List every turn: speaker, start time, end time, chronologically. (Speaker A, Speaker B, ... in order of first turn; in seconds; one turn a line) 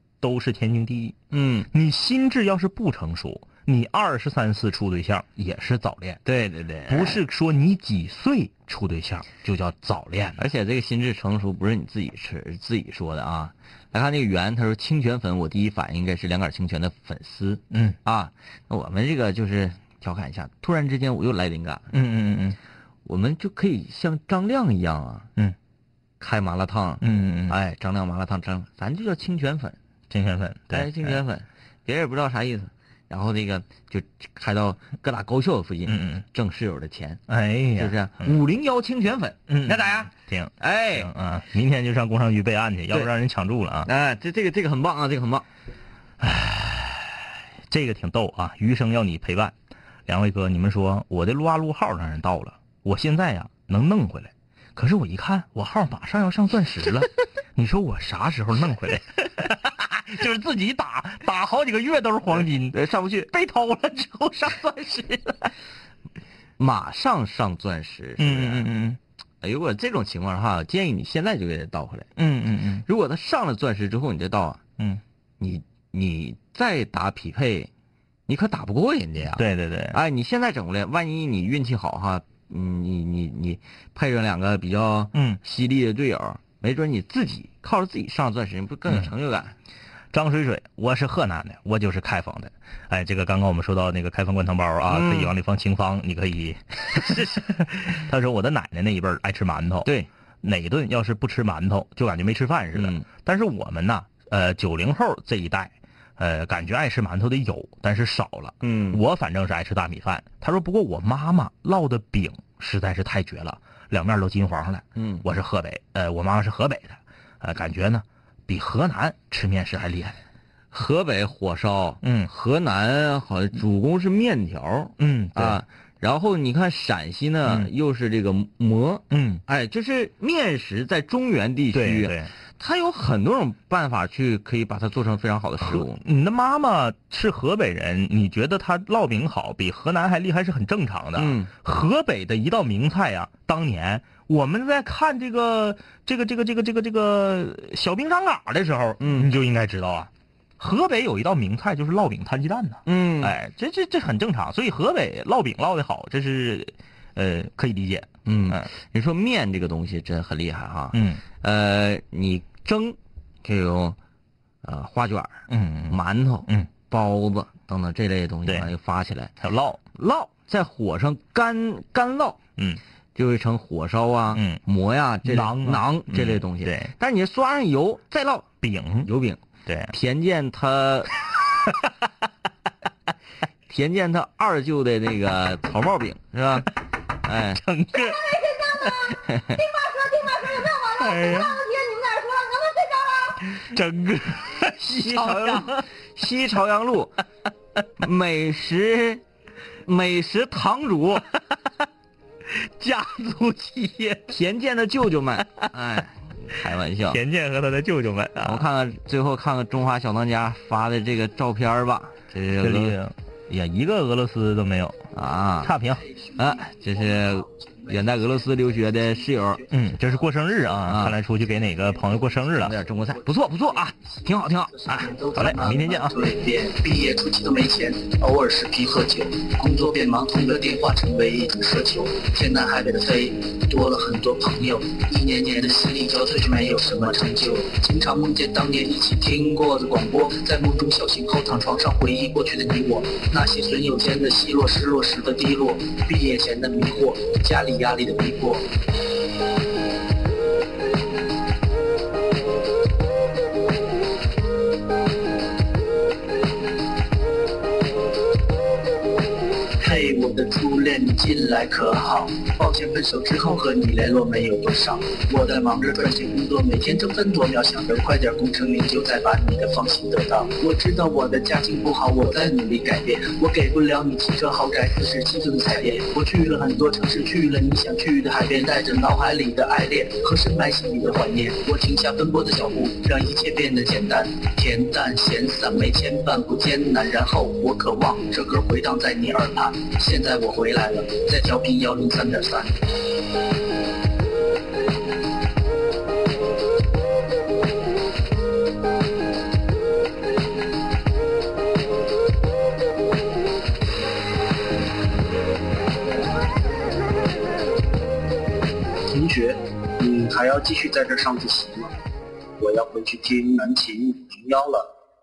Speaker A: 0.2-1.1
Speaker B: 1.3-1.7
Speaker A: 1.7-6.2
Speaker B: 6.2-7.2
Speaker A: 6.9-10.4
Speaker B: 10.4-21.9
Speaker A: 17.7-18.0
Speaker A: 21.9-22.6
Speaker B: 23.1-25.3
Speaker B: 26.2-29.8
Speaker A: 27.0-27.6
Speaker A: 30.1-31.2
Speaker B: 30.7-37.2
Speaker A: 35.9-36.2
Speaker A: 37.3-38.3
Speaker B: 37.8-41.1
Speaker A: 39.5-43.9
Speaker B: 43.9-45.4
Speaker A: 46.2-49.5
Speaker A: 50.1-65.5
Speaker B: 62.7-63.0
Speaker B: 66.6-68.7
Speaker A: 68.2-69.0
Speaker B: 69.4-72.1
Speaker A: 72.2-72.8
Speaker B: 72.9-74.6
Speaker B: 75.4-77.7
Speaker B: 78.3-89.5
Speaker A: 79.3-80.0
Speaker A: 85.1-85.4
Speaker A: 90.1-99.9
Speaker B: 94.9-95.3
Speaker A: 100.4-120.2
Speaker B: 102.8-103.0
Speaker B: 108.6-109.0
Speaker B: 115.0-115.2
Speaker B: 120.7-136.0
Speaker A: 122.0-122.3
Speaker A: 125.0-125.6
Speaker A: 129.1-129.4
Speaker A: 131.7-132.3
Speaker A: 135.6-158.7
Speaker B: 141.2-141.5
Speaker B: 149.0-149.3
Speaker B: 152.9-153.4
Speaker B: 158.2-164.0
Speaker A: 160.9-161.2
Speaker B: 164.6-169.3
Speaker A: 165.5-166.7
Speaker A: 169.4-169.8
Speaker B: 169.9-172.4
Speaker B: 173.1-178.5
Speaker A: 174.3-174.6
Speaker A: 175.2-176.9
Speaker A: 178.6-179.1
Speaker B: 179.0-181.2
Speaker A: 179.7-179.9
Speaker B: 183.7-186.7
Speaker B: 187.2-187.6
Speaker A: 187.5-189.1
Speaker B: 189.2-189.6
Speaker A: 190.2-192.0
Speaker A: 193.4-195.8
Speaker B: 194.8-197.2
Speaker B: 198.0-199.2
Speaker B: 199.8-201.3
Speaker A: 202.5-204.3
Speaker B: 204.3-207.2
Speaker A: 207.1-208.7
Speaker B: 208.4-213.0
Speaker A: 212.6-215.0
Speaker B: 215.1-215.7
Speaker A: 215.6-216.1
Speaker C: 215.9-219.9
Speaker B: 216.4-219.6
Speaker A: 219.7-222.7
Speaker B: 220.8-221.2
Speaker C: 221.8-248.7
Speaker B: 222.6-225.1
Speaker A: 225.3-226.2
Speaker C: 259.8-292.8
Speaker C: 309.1-311.9
Speaker C: 312.6-314.9